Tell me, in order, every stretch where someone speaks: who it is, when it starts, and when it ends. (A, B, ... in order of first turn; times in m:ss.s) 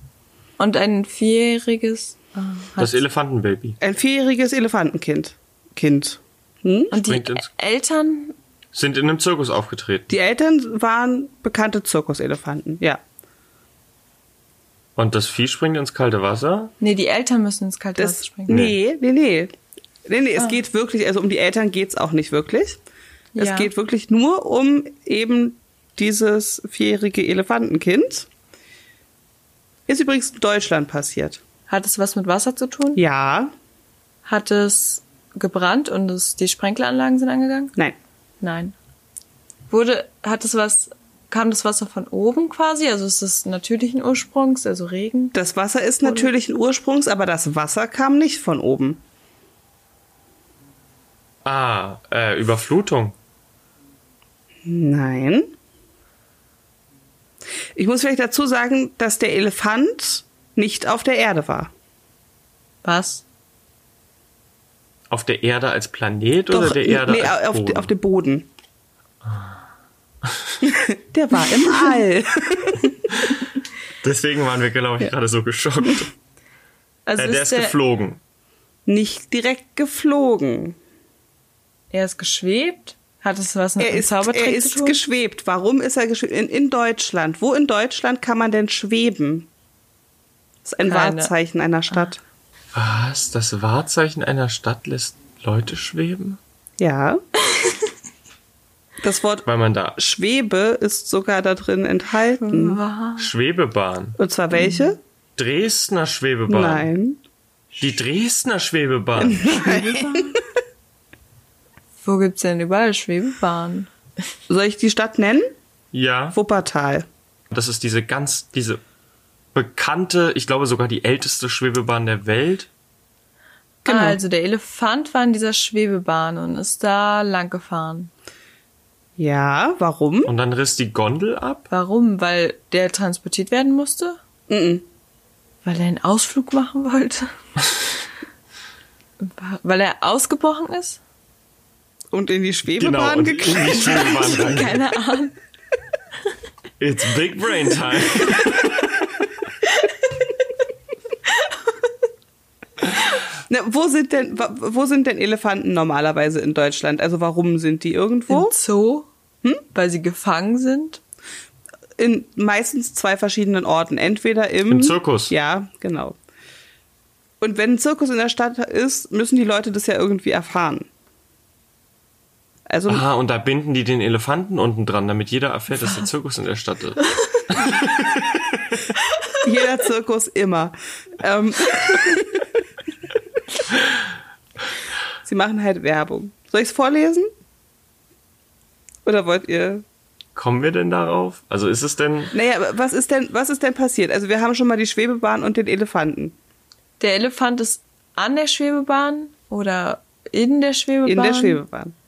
0:00.6-0:03.0 A
0:02.8-0:03.8 B
0:03.8-0:06.9 C
0:06.9-0:08.4 A
0:06.9-0:07.5 B
0:08.7-0:10.1 B
0:10.1-0:13.0 C
0:15.0-0:16.7 B
0:16.8-0:18.6 A
0:18.0-0:19.5 C
0:18.5-0:18.8 B
0:20.0-0:22.8 C
0:23.3-0:23.7 A
0:23.4-0:28.3 C
0:29.9-0:31.4 C
0:31.7-0:33.0 A
0:33.0-0:33.5 C
0:34.2-0:37.7 A
0:38.4-0:38.7 A
0:39.7-0:45.3 A
0:45.3-0:49.0 C
0:46.0-0:46.3 A
0:51.4-0:53.2 B
0:54.6-0:55.5 C
0:57.7-1:01.7 C
1:02.8-1:03.2 A
1:05.1-1:07.9 B
1:06.5-1:08.5 C
1:09.2-1:09.6 B
1:10.2-1:10.6 B
1:10.7-1:13.0 C
1:13.1-1:13.4 B
1:14.0-1:16.1 B
1:17.0-1:17.8 A
1:17.2-1:18.2 B
1:18.9-1:20.8 C
1:21.9-1:25.0 A
1:23.8-1:29.5 C
1:30.6-1:32.2 C
1:30.8-1:31.3 A
1:32.7-1:36.4 B
1:36.8-1:37.2 C
1:39.0-1:39.4 C
1:39.4-1:40.0 B
1:40.0-1:42.8 C
1:42.4-1:43.3 A
1:43.2-1:44.2 B
1:44.2-1:45.0 C
1:44.5-1:44.9 A
1:45.4-1:46.9 B
1:46.5-1:47.2 C
1:47.8-1:49.5 B
1:49.2-1:50.4 C
1:49.4-1:50.4 A
1:52.0-1:53.9 A
1:54.5-1:55.5 C
1:55.9-1:56.4 B
1:56.3-1:57.0 C
1:57.5-1:58.8 B
1:59.5-2:02.7 B
2:03.8-2:04.2 C
2:03.8-2:08.1 A
2:09.2-2:10.3 C
2:10.2-2:11.7 B
2:11.7-2:14.2 A
2:14.5-2:14.8 C
2:15.6-2:17.3 A
2:19.2-2:21.0 A
2:22.1-2:24.7 C
2:22.7-2:24.8 B
2:23.8-2:25.4 A
2:26.8-2:28.8 B
2:31.3-2:31.8 A
2:33.5-2:38.5 C
2:38.3-2:39.1 A
2:39.7-2:41.0 A
2:42.0-2:46.2 C
2:44.7-2:45.3 B
2:47.4-2:50.9 C
2:52.7-2:53.0 C
2:52.9-2:58.8 B
2:59.4-3:02.4 C
3:05.2-3:07.3 C
3:09.0-3:09.8 C
3:10.4-3:12.3 B
3:12.3-3:16.4 C
3:17.0-3:21.6 A
3:21.0-3:21.9 C